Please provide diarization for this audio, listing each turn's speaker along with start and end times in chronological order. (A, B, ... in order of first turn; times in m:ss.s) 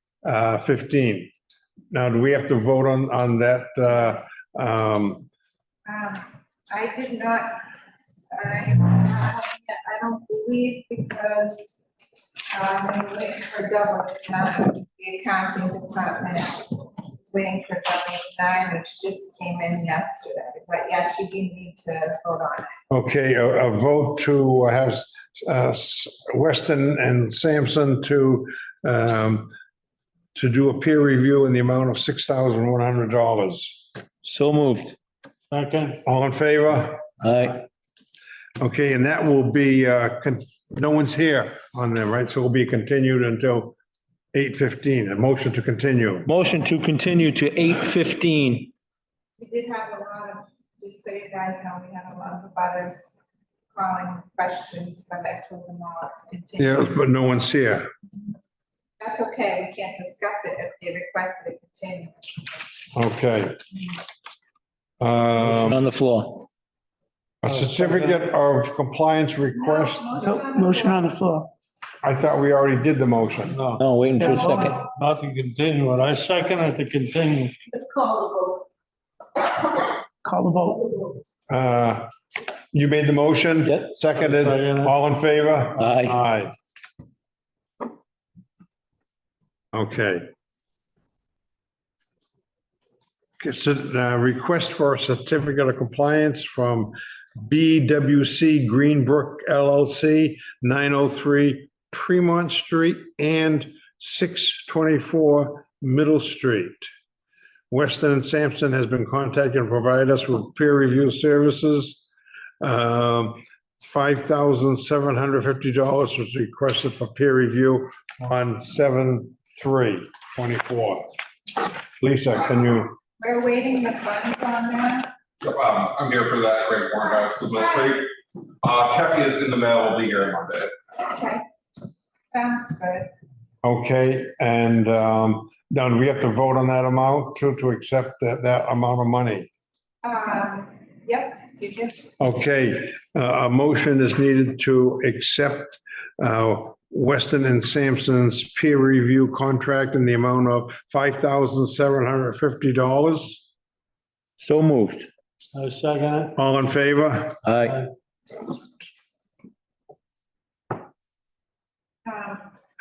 0:00.2-0:01.3 A
0:01.9-0:05.3 A
0:05.8-0:11.9 B
0:12.5-0:22.8 B
0:22.9-0:29.5 A
0:30.3-0:33.8 A
0:34.2-0:35.0 C
0:35.5-0:36.0 D
0:36.0-0:37.0 A
0:37.2-0:37.6 C
0:38.6-0:43.8 A
0:44.3-0:46.3 A
0:46.3-0:48.7 C
0:49.4-0:57.0 B
0:56.6-0:57.9 A
0:59.0-1:02.6 B
1:02.9-1:03.6 A
1:05.0-1:05.8 A
1:05.4-1:06.4 C
1:07.4-1:10.1 A
1:07.5-1:08.2 D
1:09.6-1:11.2 B
1:10.2-1:11.5 E
1:12.0-1:13.7 A
1:13.5-1:17.8 D
1:13.8-1:14.8 C
1:14.2-1:14.8 B
1:20.2-1:20.9 E
1:21.5-1:22.1 A
1:22.7-1:26.5 A
1:24.1-1:25.0 D
1:25.8-1:26.2 C
1:29.7-1:30.3 A
1:33.4-1:46.9 A
1:47.7-1:52.1 A
1:52.6-2:01.1 A
2:02.0-2:03.0 A
2:03.2-2:05.1 B
2:05.4-2:10.7 F
2:11.0-2:11.4 B
2:12.3-2:13.1 B
2:13.6-2:19.5 A
2:20.0-2:22.1 B
2:22.2-2:33.5 A
2:34.4-2:35.1 C
2:35.5-2:36.4 D
2:36.4-2:37.4 A
2:37.4-2:37.8 C
2:42.0-2:42.6 B